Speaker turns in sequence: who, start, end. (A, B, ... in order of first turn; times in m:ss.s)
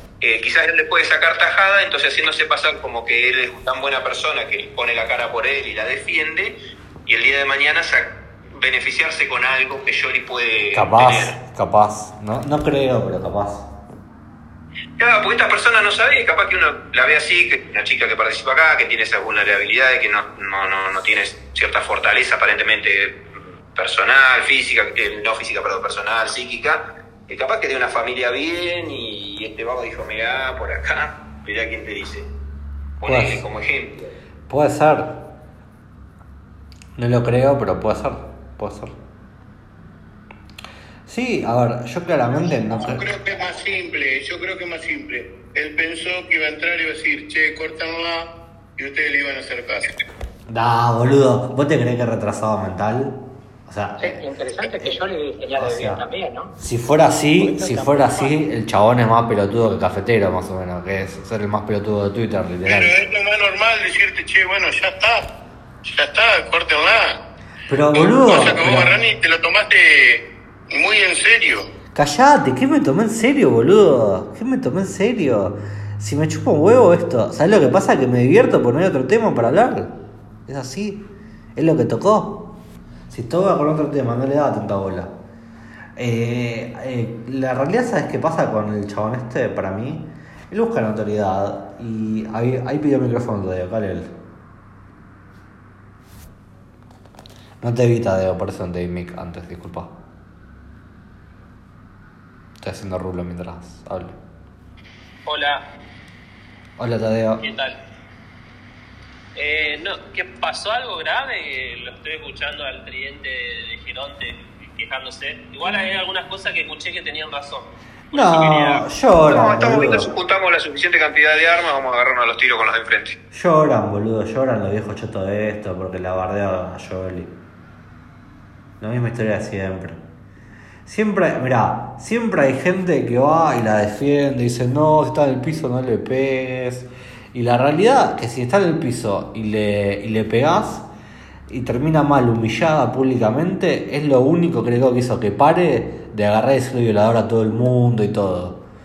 0:00.2-0:06.6 A
0:07.1-0:11.4 A
0:10.7-0:13.7 B
0:15.0-0:23.2 A
0:23.7-0:32.3 A
0:33.0-0:34.1 A
0:33.1-0:33.4 B
0:34.5-0:35.2 B
0:37.0-0:38.9 B
0:41.1-0:43.1 B
0:42.4-0:49.9 C
0:50.5-0:55.0 B
0:54.0-0:56.5 D
0:55.6-0:56.0 B
0:56.6-1:02.9 B
0:57.4-0:58.4 D
1:02.7-1:05.2 C
1:05.8-1:07.2 C
1:07.7-1:08.9 B
1:07.9-1:11.6 C
1:12.0-1:19.9 B
1:20.5-1:21.0 B
1:21.6-1:22.4 B
1:23.1-1:25.1 B
1:26.0-1:34.1 B
1:37.6-1:39.9 B
1:42.6-1:44.2 B
1:45.3-1:45.6 E
1:46.8-1:47.4 B
1:47.4-1:47.8 E
1:49.4-1:58.8 E
1:58.1-2:00.1 B
1:58.3-1:58.6 A
1:59.3-2:03.2 A
2:03.3-2:07.3 B
2:08.8-2:10.0 B
2:10.9-2:20.9 B
2:21.5-2:28.6 B